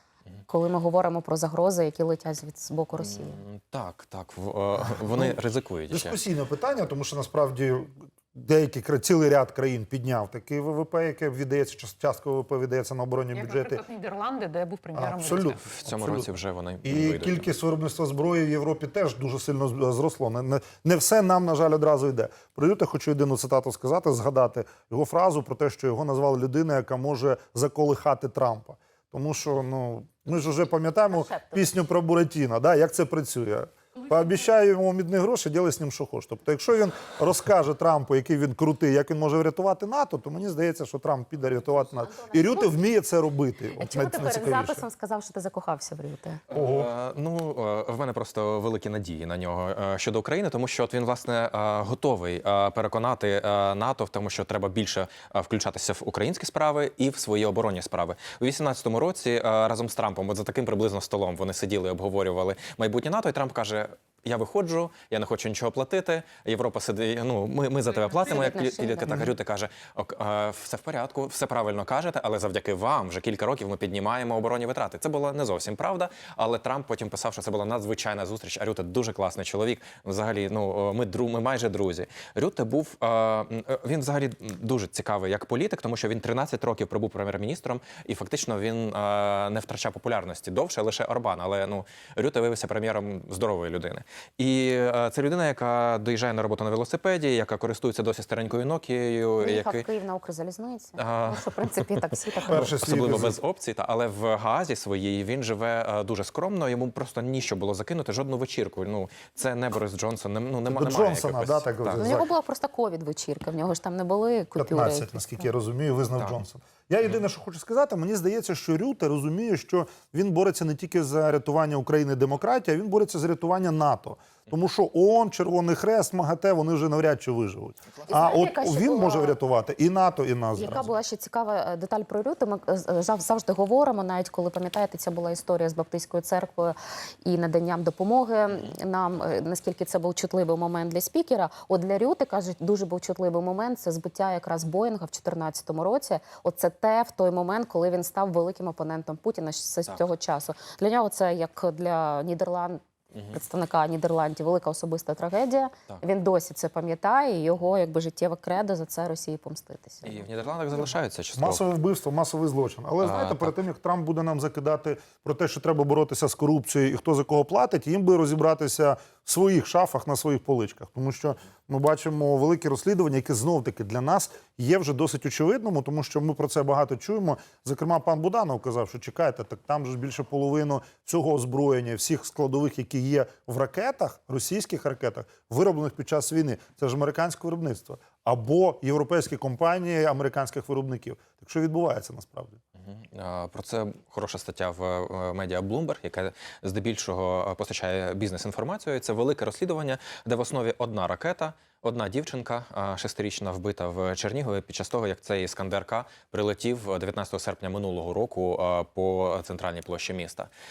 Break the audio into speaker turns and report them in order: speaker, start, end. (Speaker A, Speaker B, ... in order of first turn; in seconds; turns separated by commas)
Speaker A: 0.5-3.4, Speaker B: 3.0-6.2, Speaker C: 4.8-5.4, Speaker C: 5.9-13.8, Speaker D: 13.3-15.7, Speaker C: 14.9-16.3, Speaker B: 15.6-17.5, Speaker C: 16.8-44.8, Speaker A: 30.9-31.7, Speaker A: 42.1-42.7, Speaker A: 43.8-46.4, Speaker B: 46.5-99.8, Speaker C: 46.5-46.9, Speaker A: 68.0-69.3, Speaker A: 99.4-102.7, Speaker B: 101.0-112.0, Speaker C: 102.5-103.4, Speaker C: 110.7-112.3, Speaker A: 112.0-115.5, Speaker C: 114.5-130.9, Speaker A: 128.0-129.4, Speaker A: 130.6-160.3, Speaker B: 160.0-161.6, Speaker C: 160.8-192.6, Speaker B: 163.0-163.6, Speaker B: 192.8-210.5